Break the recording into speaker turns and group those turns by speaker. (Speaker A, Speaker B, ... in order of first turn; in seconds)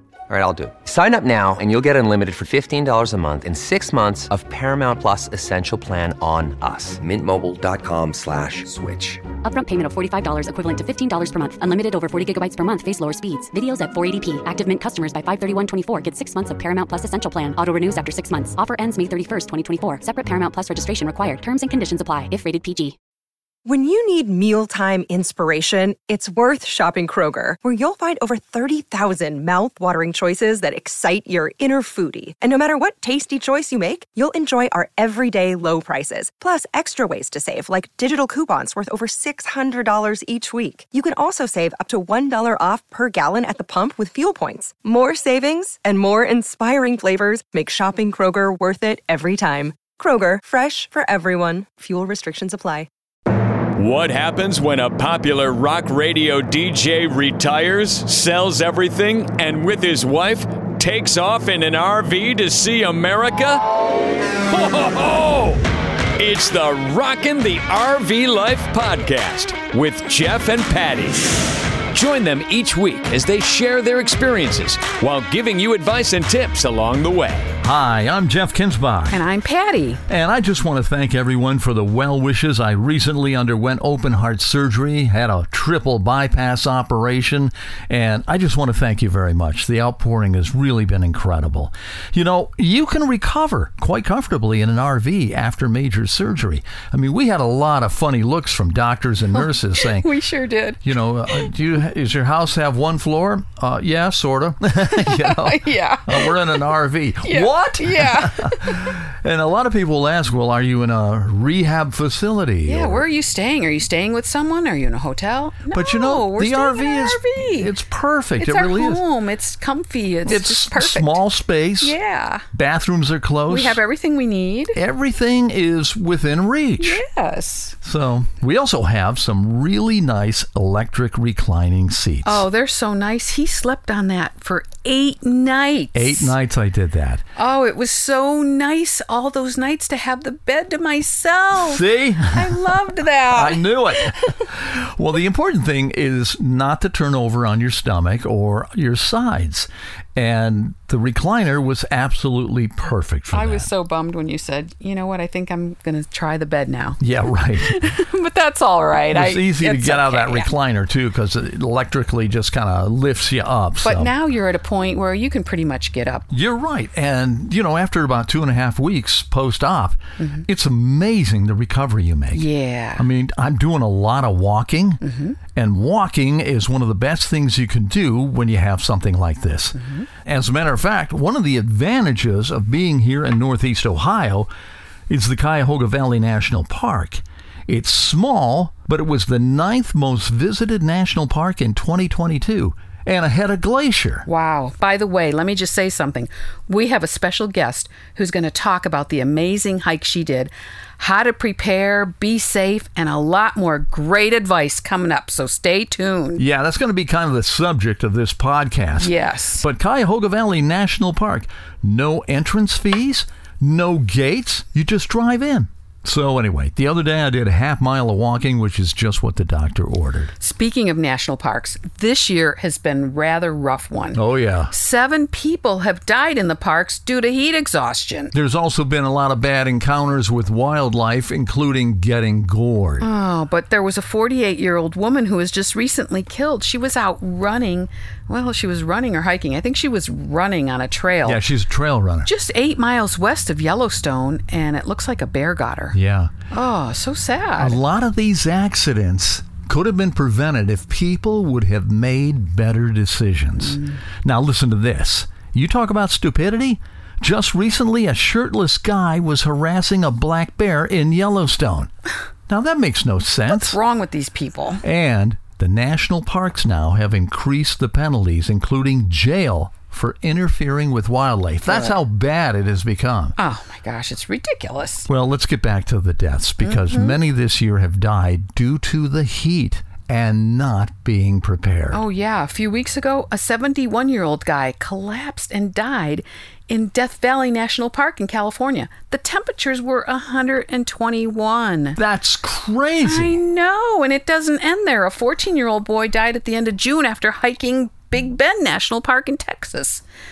Speaker A: 0.3-9.3
Speaker B: 9.4-22.9
Speaker C: 23.6-52.9
Speaker D: 53.8-63.6, 64.5-65.6, 66.2-71.3, 71.9-77.5
Speaker E: 77.6-79.2, 80.1-100.1, 100.8-113.0, 115.7-119.0, 120.2-122.0, 122.5-123.8, 124.7-127.0, 127.8-132.4, 135.9-137.2, 141.5-142.7, 143.3-153.7, 157.0-157.8, 159.1-164.1, 166.3-175.0, 175.5-184.5, 185.1-194.2, 206.3-220.3, 224.1-224.7, 228.3-233.1, 241.2-242.3, 245.9-246.3, 247.6-261.9, 262.5-263.8, 264.8-273.3, 275.1-282.0, 291.9-293.4
Speaker F: 79.1-80.0, 99.3-101.5, 104.8-106.7, 107.2-109.0, 112.6-117.7, 118.4-121.2, 121.8-122.4, 123.5-124.8, 126.8-127.8, 132.2-136.3, 137.3-144.2, 153.3-157.0, 157.6-160.5, 163.8-166.3, 170.2-170.5, 172.3-173.1, 175.0-175.4, 179.7-180.1, 194.2-206.4, 209.0-209.7, 220.4-228.3, 233.0-241.4, 242.2-246.0, 246.5-247.8, 253.6-254.0, 263.5-264.8, 271.6-272.0, 273.4-275.1, 276.6-277.2, 281.9-292.0, 293.0-300.0